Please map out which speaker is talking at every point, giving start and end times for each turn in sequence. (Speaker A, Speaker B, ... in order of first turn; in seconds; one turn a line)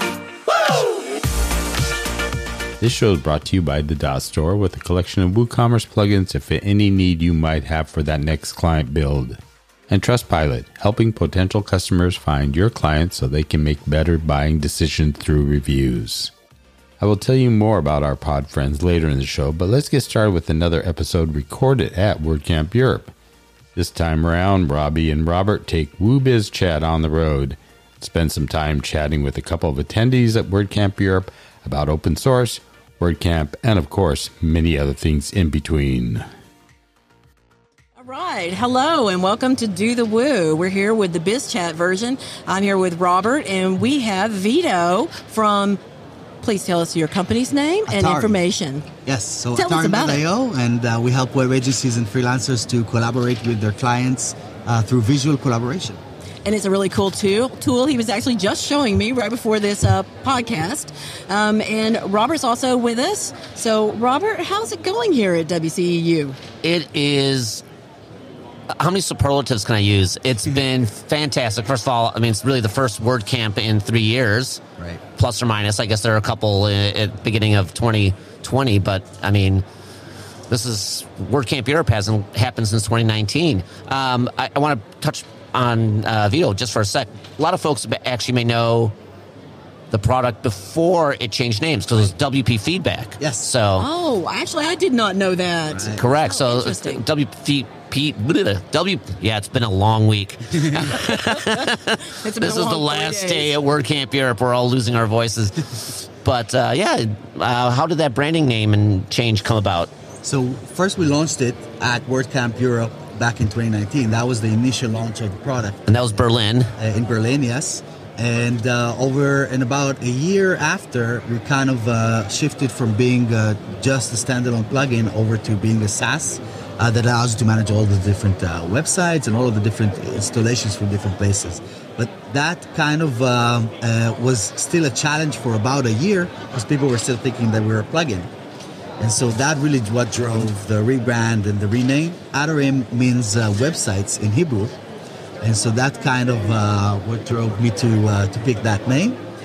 Speaker A: 2.8-16.3
Speaker A: 17.0-23.1
Speaker A: 23.8-36.2
Speaker B: 38.0-45.8
Speaker B: 46.4-48.9
Speaker C: 47.9-48.4
Speaker C: 49.0-56.0
Speaker B: 49.5-50.2
Speaker B: 56.4-66.4
Speaker D: 66.6-67.6
Speaker D: 68.7-74.6
Speaker D: 75.2-79.6
Speaker D: 80.5-88.9
Speaker D: 89.9-93.8
Speaker C: 93.2-93.5
Speaker B: 93.8-97.0
Speaker C: 95.7-96.0
Speaker D: 96.0-109.9
Speaker C: 100.5-100.8
Speaker B: 101.0-103.6
Speaker C: 110.2-116.2
Speaker D: 115.9-116.7
Speaker C: 116.8-138.3
Speaker C: 139.0-144.8
Speaker C: 145.4-149.2